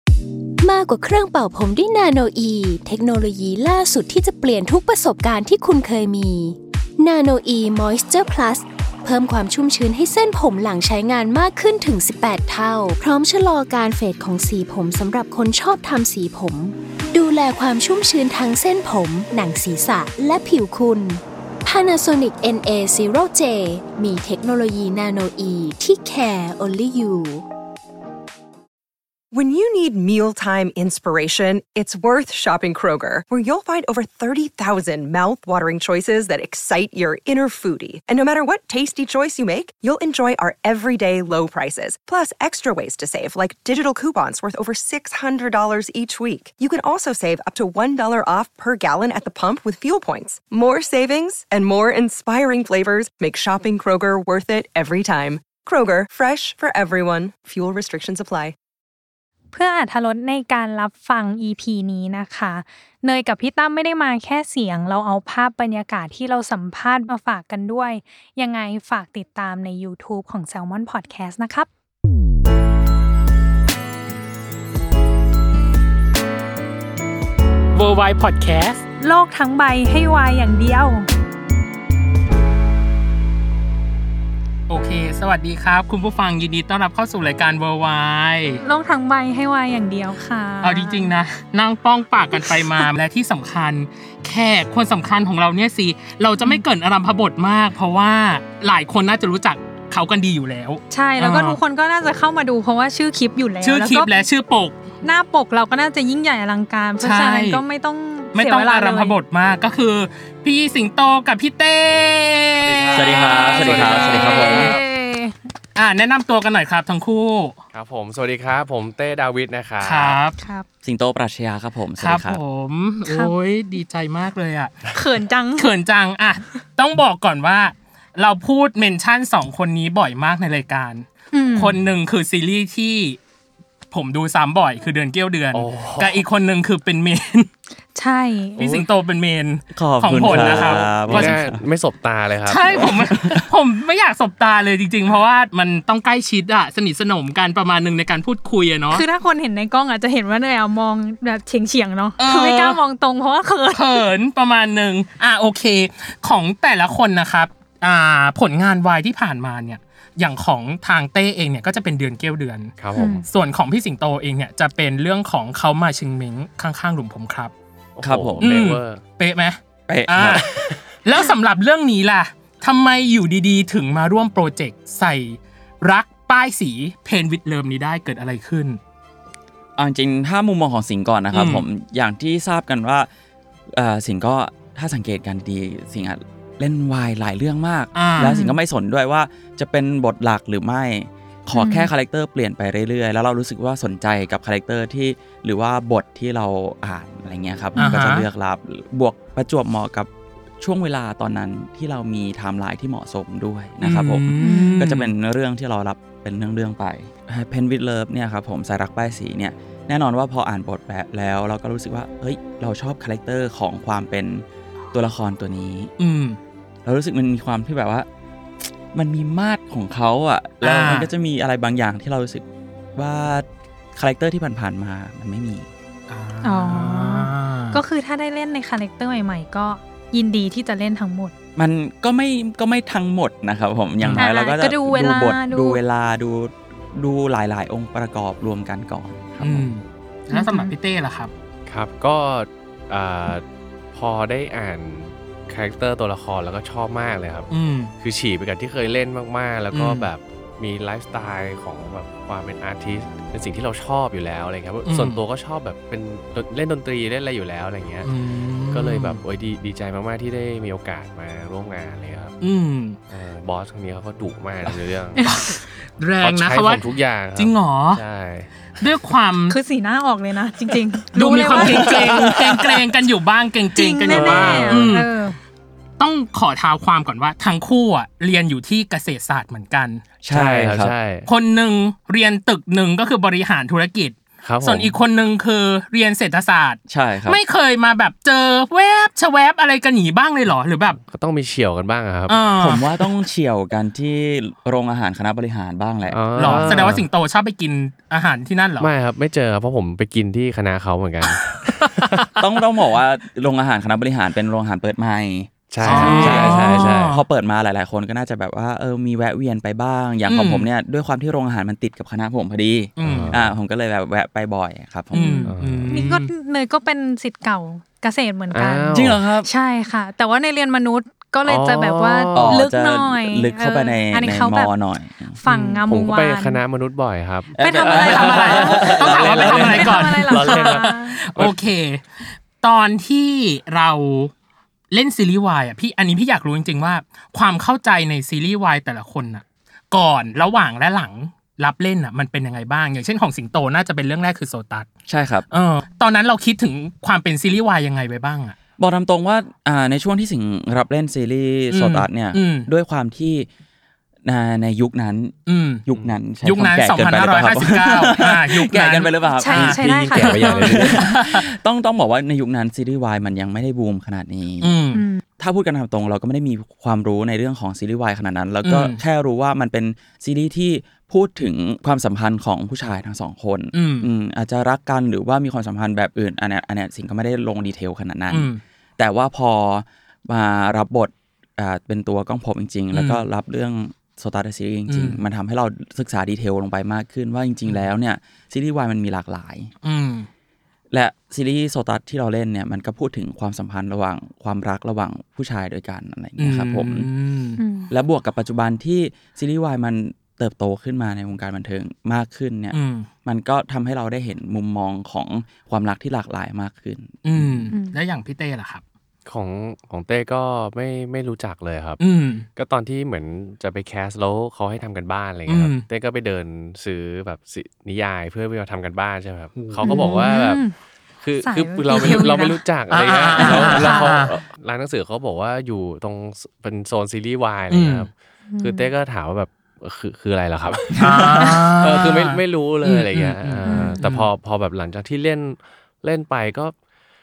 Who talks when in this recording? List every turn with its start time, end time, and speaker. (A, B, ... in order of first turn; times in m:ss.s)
0:00.6-0:27.4 A
0:29.3-0:58.6 B
0:59.5-1:11.7 C
1:17.7-1:18.8 D
1:19.0-1:21.1 C
1:24.7-1:28.6 D
1:28.6-1:31.1 C
1:30.6-1:41.6 D
1:32.4-1:32.8 C
1:36.4-1:36.6 C
1:40.9-1:44.1 C
1:43.6-1:44.8 D
1:45.0-1:49.2 C
1:47.0-1:47.6 D
1:48.3-1:54.5 D
1:52.6-1:54.8 E
1:52.9-1:54.7 F
1:54.1-1:55.4 C
1:55.8-1:57.6 D
1:57.7-2:00.2 E
1:59.8-2:00.4 D
2:00.4-2:00.6 C
2:00.8-2:02.4 F
2:02.0-2:04.8 D
2:03.1-2:03.3 C
2:04.9-2:05.7 C
2:05.6-2:13.2 D
2:11.3-2:11.7 C
2:13.9-2:17.5 D
2:15.5-2:16.2 E
2:18.0-2:18.8 C
2:18.6-2:21.4 D
2:19.7-2:21.6 F
2:20.1-2:22.6 E
2:22.5-2:29.0 D
2:22.7-2:23.4 F
2:28.9-2:34.1 C
2:32.2-2:32.8 D
2:33.8-2:42.7 D
2:42.8-2:43.3 E
2:43.0-2:43.3 C
2:43.3-2:47.5 D
2:48.0-2:49.0 E
2:48.0-2:48.5 F
2:48.4-2:50.5 D
2:49.9-2:50.5 F
2:51.0-2:58.8 D
2:59.8-3:03.1 F
3:01.3-3:01.6 D
3:03.7-3:35.9 F
3:08.0-3:08.4 D
3:08.2-3:08.6 C
3:11.5-3:11.9 C
3:17.8-3:18.3 D
3:23.8-3:25.1 D
3:24.4-3:24.8 C
3:36.0-3:36.4 D
3:36.8-3:38.1 F
3:38.9-3:45.7 F
3:40.6-3:41.1 D
3:46.1-3:47.8 D
3:46.4-3:51.3 C
3:51.6-3:59.7 F
3:54.2-3:55.8 C
3:59.4-4:01.3 D
4:00.3-4:00.7 C
4:01.7-4:18.1 E
4:07.5-4:07.9 D
4:09.7-4:10.1 D
4:14.8-4:15.2 D
4:18.0-4:19.2 D
4:18.7-4:22.4 E
4:22.4-4:23.0 D
4:23.1-4:25.3 E
4:25.2-4:26.8 D
4:26.2-4:28.5 E
4:27.4-4:28.0 D
4:28.8-4:29.6 D
4:29.5-4:32.2 C
4:31.1-4:35.1 D
4:31.7-4:32.4 F
4:33.8-4:35.4 C
4:34.1-4:34.9 E
4:36.0-4:40.0 D
4:40.2-4:40.9 F
4:40.3-4:41.3 E
4:41.3-4:51.0 D
4:44.4-4:45.0 E
4:46.9-4:47.4 F
4:51.0-4:52.5 E
4:52.3-4:52.9 D
4:52.6-4:57.0 F
4:56.1-4:57.1 E
4:56.4-4:58.9 D
4:58.8-5:02.3 E
5:01.4-5:01.9 D
5:02.4-5:15.4 F
5:05.7-5:07.1 E
5:05.8-5:07.2 D
5:06.0-5:06.4 C
5:10.3-5:10.7 D
5:13.0-5:13.4 D
5:13.0-5:13.5 E
5:15.1-5:16.3 D
5:15.1-5:24.7 C
5:15.5-5:16.1 E
5:18.5-5:19.2 E
5:18.9-5:19.5 F
5:21.5-5:22.7 E
5:22.4-5:25.4 F
5:25.4-5:26.6 C
5:25.5-5:25.8 D
5:25.8-5:31.6 E
5:27.6-5:29.9 F
5:27.6-5:31.2 C
5:28.2-5:32.0 D
5:32.6-5:34.3 D
5:34.9-5:44.9 D
5:45.1-5:45.5 F
5:45.5-5:48.6 D
5:48.8-5:53.5 F
5:51.7-5:52.7 D
5:54.2-5:55.4 F
5:55.5-5:55.8 D
5:55.9-6:04.7 F
5:56.4-5:59.8 D
5:59.4-6:01.0 C
5:59.6-6:01.0 E
6:01.0-6:01.4 D
6:04.6-6:05.0 D
6:04.9-6:05.2 C
6:05.4-6:29.7 F
6:08.6-6:09.0 D
6:13.7-6:14.1 D
6:18.3-6:18.6 D
6:22.9-6:23.2 D
6:24.9-6:25.2 D
6:29.8-6:30.3 D
6:30.9-6:37.1 F
6:36.4-6:37.6 D
6:37.6-6:37.9 C
6:37.9-6:47.7 F
6:42.7-6:43.1 D
6:47.2-6:48.8 D
6:47.7-6:48.0 C
6:49.3-6:52.0 E
6:52.0-6:52.5 D
6:52.6-7:00.6 E
6:55.5-6:55.9 D
6:59.6-7:00.2 D
6:59.8-7:00.8 C
7:01.2-7:08.1 E
7:01.4-7:02.6 C
7:01.9-7:02.3 D
7:02.9-7:04.3 D
7:03.4-7:04.2 C
7:07.7-7:08.1 D
7:08.5-7:08.9 C
7:08.6-7:16.7 E
7:11.0-7:11.4 F
7:11.0-7:14.3 D
7:13.6-7:14.0 C